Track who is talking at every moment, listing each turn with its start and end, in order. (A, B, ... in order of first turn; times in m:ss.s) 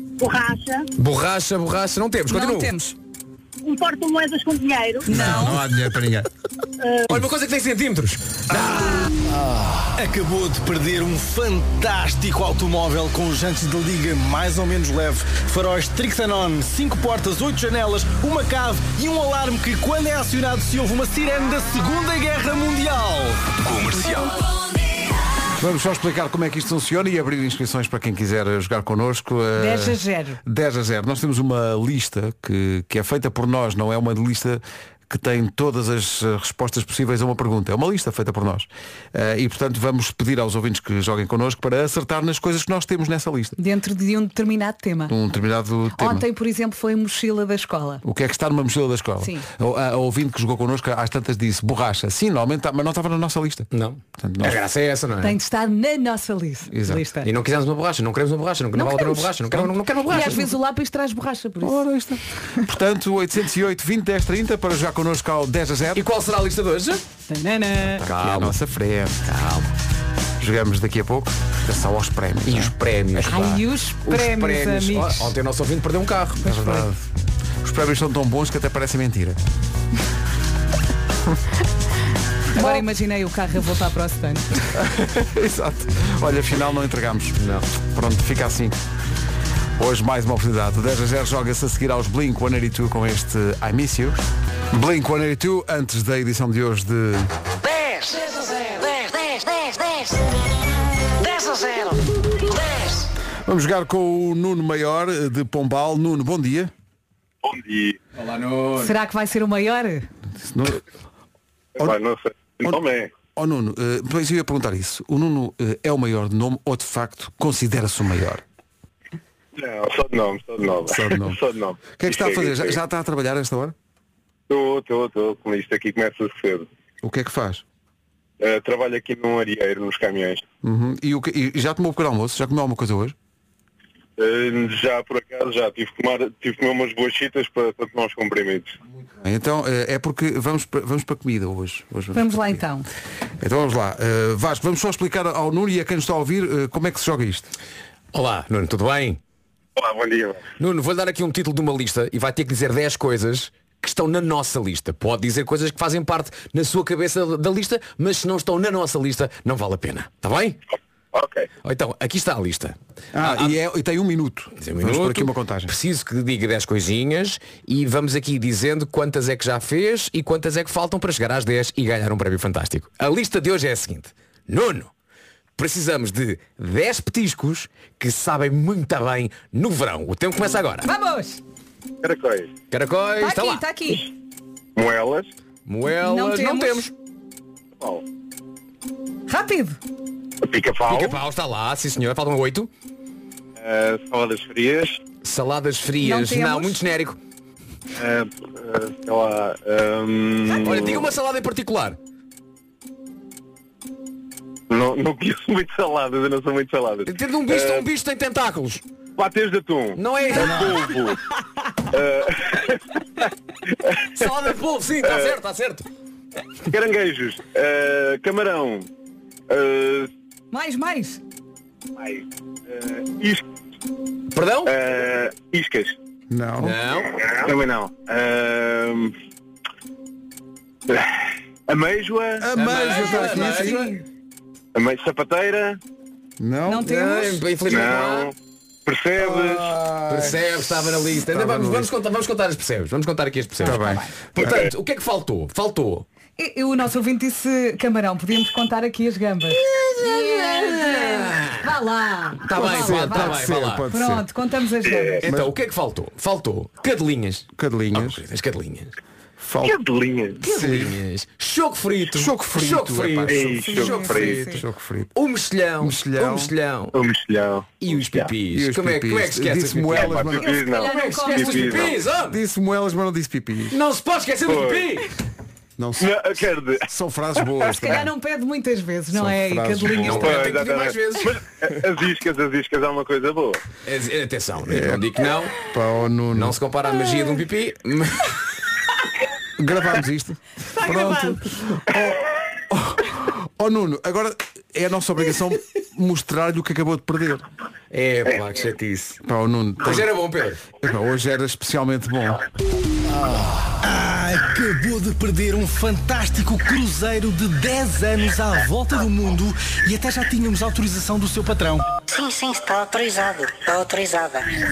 0:00.2-0:00.9 A
0:01.0-0:02.7 B
0:02.3-0:02.9 C
0:03.6-0:05.1 A
0:05.0-0:05.6 C
0:05.1-0:06.3 D
0:06.8-0:07.2 A
0:07.1-0:08.5 B
0:08.5-0:24.1 E
0:25.6-0:43.6 D
0:29.6-0:30.4 C
0:43.6-0:45.1 C
0:45.1-0:46.2 D
0:46.0-0:48.0 C
0:48.0-0:53.7 D
0:53.7-0:55.4 B
0:54.2-0:54.6 D
0:55.2-0:57.3 C
0:56.7-0:57.1 D
0:57.2-1:00.6 B
0:58.7-0:59.3 C
1:00.1-1:01.8 C
1:01.6-1:06.0 D
1:05.9-1:07.0 B
1:07.3-1:08.0 C
1:07.9-1:09.3 D
1:08.0-1:08.6 B
1:09.3-1:09.7 B
1:10.4-1:13.6 D
1:12.4-1:16.9 B
1:13.2-1:15.3 C
1:16.4-1:17.0 D
1:17.6-1:19.4 D
1:22.5-1:24.5 C
1:24.8-1:27.4 D
1:27.4-1:27.6 B
1:27.9-1:28.8 D
1:29.8-1:37.3 D
1:37.6-1:40.2 F
1:41.2-1:43.0 F
1:43.4-1:46.7 D
1:47.4-1:48.0 G
1:48.2-1:48.9 B
1:48.8-1:50.1 C
1:50.4-1:50.8 D
1:51.8-1:53.1 G
1:53.3-1:58.4 D
1:59.6-2:02.8 G
2:00.9-2:01.4 D
2:01.9-2:03.7 D
2:04.5-2:06.7 G
2:07.0-2:07.6 D
2:08.4-2:10.4 G
2:10.6-2:13.1 D
2:14.2-2:18.7 G
2:19.2-2:22.6 D
2:22.1-2:22.8 C
2:23.4-2:27.5 D
2:28.1-2:29.2 B
2:29.8-2:30.4 G
2:30.6-2:40.6 B
2:41.1-2:41.5 G
2:41.6-2:43.6 B
2:43.1-2:45.7 D
2:44.6-2:54.9 B
2:55.6-3:00.9 B
3:00.8-3:01.4 C
3:02.0-3:02.5 G
3:02.7-3:03.6 B
3:03.2-3:04.1 C
3:04.8-3:05.3 G
3:05.7-3:06.9 B
3:05.9-3:06.9 C
3:09.3-3:09.8 C
3:10.4-3:11.2 G
3:10.8-3:12.7 B
3:13.6-3:15.0 G
3:15.2-3:17.2 B
3:16.0-3:16.8 C
3:18.0-3:21.1 G
3:20.5-3:22.0 B
3:24.7-3:27.8 G
3:27.0-3:28.8 B
3:29.2-3:31.2 G
3:30.0-3:30.9 B
3:31.9-3:33.2 G
3:33.8-3:34.3 G
3:34.1-3:35.8 B
3:35.0-3:35.4 G
3:36.7-3:38.9 G
3:39.5-3:40.1 G
3:40.5-3:41.2 C
3:42.0-3:43.4 G
3:44.3-3:44.7 B
3:44.6-3:46.0 G
3:46.3-3:46.8 D
3:46.6-3:47.1 B
3:47.1-3:49.1 G
3:50.9-3:52.4 G
3:52.4-3:54.0 D
3:52.6-3:54.0 B
3:53.4-3:53.8 C
3:54.7-3:55.8 G
3:56.4-3:56.9 D
3:56.7-3:57.5 C
3:56.8-3:58.3 B
3:57.7-3:58.3 G
3:58.8-3:59.7 G
3:59.2-4:01.9 D
4:00.1-4:06.0 B
4:03.6-4:04.0 D
4:03.7-4:03.9 C
4:04.4-4:04.7 G
4:06.4-4:15.2 C
4:09.6-4:11.7 B
4:12.4-4:13.8 B
4:12.5-4:14.3 D
4:15.2-4:19.0 B
4:15.2-4:15.5 D
4:17.6-4:18.2 D
4:19.4-4:19.8 D
4:19.6-4:20.4 G
4:20.4-4:20.9 D
4:20.4-4:24.6 B
4:22.1-4:23.7 D
4:23.3-4:24.4 G
4:23.6-4:24.6 C
4:24.5-4:25.1 D
4:25.1-4:26.9 B
4:25.8-4:26.5 D
4:26.9-4:28.3 G
4:27.8-4:32.4 B
4:28.5-4:30.5 D
4:30.0-4:31.9 G
4:30.3-4:31.9 C
4:32.2-4:33.8 D
4:33.7-4:35.1 B
4:34.4-4:34.9 G
4:35.8-4:36.2 D
4:36.0-4:36.8 G
4:36.8-4:38.1 D
4:37.9-4:40.5 C
4:39.1-4:40.3 D
4:39.9-4:41.3 B
4:40.2-4:43.6 G
4:43.8-4:45.6 B
4:44.7-4:45.0 D
4:45.6-4:46.6 D
4:46.3-4:48.4 B
4:49.6-4:52.2 D
4:50.8-4:51.4 C
4:52.7-4:57.4 D
4:57.9-4:59.2 B
4:59.2-5:00.1 D
4:59.8-5:00.6 B
5:00.8-5:02.4 D
5:03.1-5:11.9 E
5:12.1-5:14.5 F